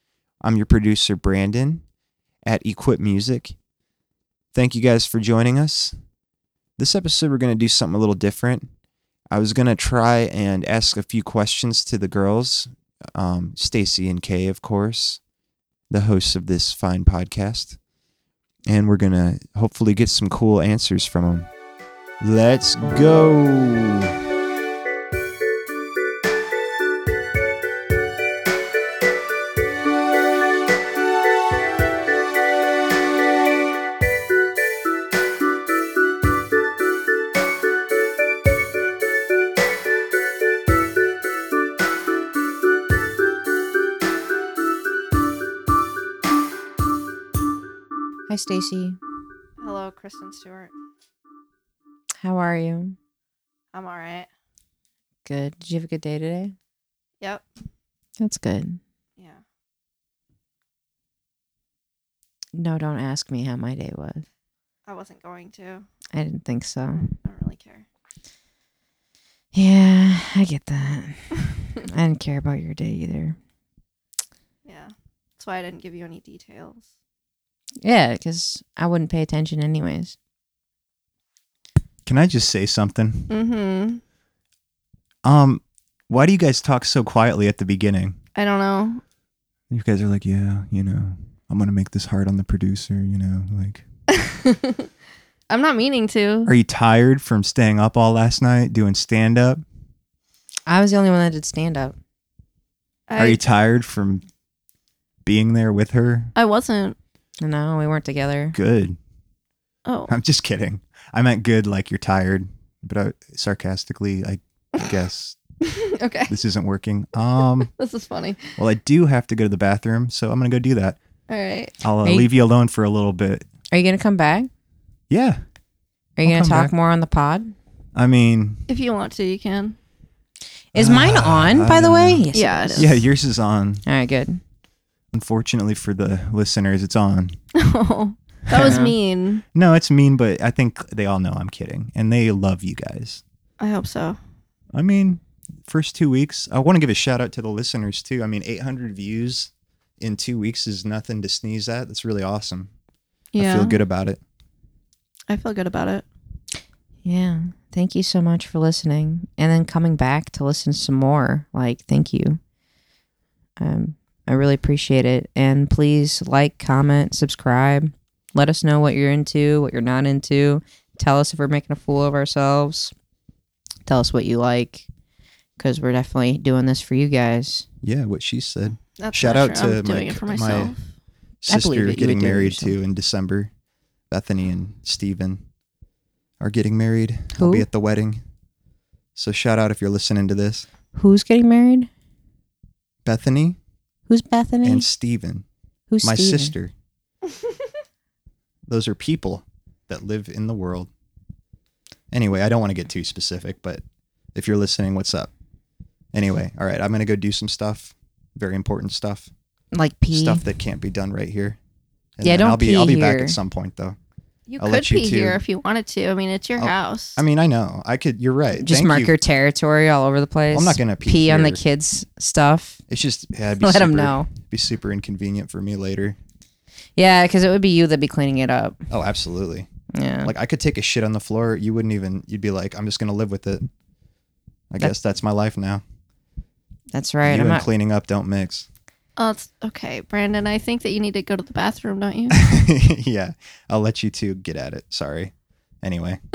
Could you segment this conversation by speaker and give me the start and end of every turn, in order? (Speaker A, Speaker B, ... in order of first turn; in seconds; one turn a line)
Speaker A: 0.4-1.8
Speaker A: 2.4-3.5
Speaker A: 4.5-6.0
Speaker A: 6.8-8.7
Speaker A: 9.3-15.2
Speaker A: 15.9-17.8
Speaker A: 18.7-21.5
Speaker A: 22.2-24.1
Speaker B: 48.3-49.0
Speaker C: 49.6-50.7
Speaker B: 52.2-53.0
Speaker C: 53.7-54.3
Speaker B: 55.2-56.5
Speaker B: 58.2-58.8
Speaker B: 62.5-64.3
Speaker C: 64.9-65.9
Speaker B: 66.1-67.1
Speaker C: 67.2-67.8
Speaker B: 69.5-73.4
Speaker C: 74.6-76.8
Speaker B: 77.8-80.2
Speaker A: 82.0-83.3
Speaker C: 83.3-84.0
Speaker A: 85.2-88.2
Speaker C: 88.3-89.0
Speaker A: 89.7-93.8
Speaker C: 94.1-94.9
Speaker C: 95.5-96.5
Speaker A: 96.5-99.6
Speaker B: 100.7-102.0
Speaker C: 103.1-103.4
Speaker A: 103.2-104.2
Speaker A: 105.2-106.3
Speaker C: 106.3-107.0
Speaker B: 107.4-108.6
Speaker A: 108.5-109.0
Speaker C: 109.8-110.1
Speaker A: 110.1-115.4
Speaker C: 115.6-116.3
Speaker A: 116.3-117.7
Speaker C: 117.7-118.6
Speaker A: 118.6-121.0
Speaker C: 121.3-121.7
Speaker A: 121.8-123.5
Speaker B: 122.0-122.3
Speaker B: 123.7-124.5
Speaker A: 125.1-125.4
Speaker B: 126.2-127.5
Speaker A: 126.2-126.7
Speaker A: 127.9-128.6
Speaker C: 128.7-129.8
Speaker B: 130.7-133.0
Speaker A: 130.7-133.8
Speaker C: 132.3-133.0
Speaker B: 133.8-134.4
Speaker A: 135.1-137.4
Speaker C: 137.5-139.4
Speaker A: 138.5-138.8
Speaker B: 138.6-138.9
Speaker A: 139.5-143.2
Speaker C: 143.6-144.2
Speaker A: 144.7-152.7
Speaker C: 153.3-153.8
Speaker A: 153.3-154.2
Speaker C: 155.3-156.0
Speaker B: 157.0-162.4
Speaker B: 163.6-172.9
Speaker B: 173.8-174.9
Speaker B: 175.6-177.7
Speaker A: 177.8-180.7
Speaker C: 179.0-180.8
Speaker A: 181.4-183.5
Speaker B: 181.5-182.8
Speaker A: 184.1-185.4
Speaker A: 186.4-188.2
Speaker B: 187.3-187.7
Speaker A: 189.2-190.7
Speaker B: 190.9-191.9
Speaker A: 193.0-193.6
Speaker B: 194.1-194.9
Speaker A: 194.6-195.4
Speaker B: 195.9-196.6
Speaker A: 196.0-196.7
Speaker A: 198.7-200.9
Speaker A: 202.1-203.8
Speaker A: 204.3-205.3
Speaker A: 206.1-209.3
Speaker B: 209.7-210.4
Speaker A: 210.1-211.6
Speaker A: 212.2-214.0
Speaker B: 212.2-213.4
Speaker C: 214.5-217.2
Speaker A: 214.6-215.4
Speaker A: 216.6-219.1
Speaker B: 218.5-222.8
Speaker A: 220.5-221.6
Speaker A: 222.9-226.2
Speaker B: 223.6-224.3
Speaker B: 226.9-228.9
Speaker A: 228.9-229.7
Speaker B: 229.9-230.3
Speaker A: 230.2-233.7
Speaker A: 234.7-235.8
Speaker B: 236.9-237.7
Speaker A: 237.2-238.7
Speaker C: 239.2-242.4
Speaker A: 242.3-246.2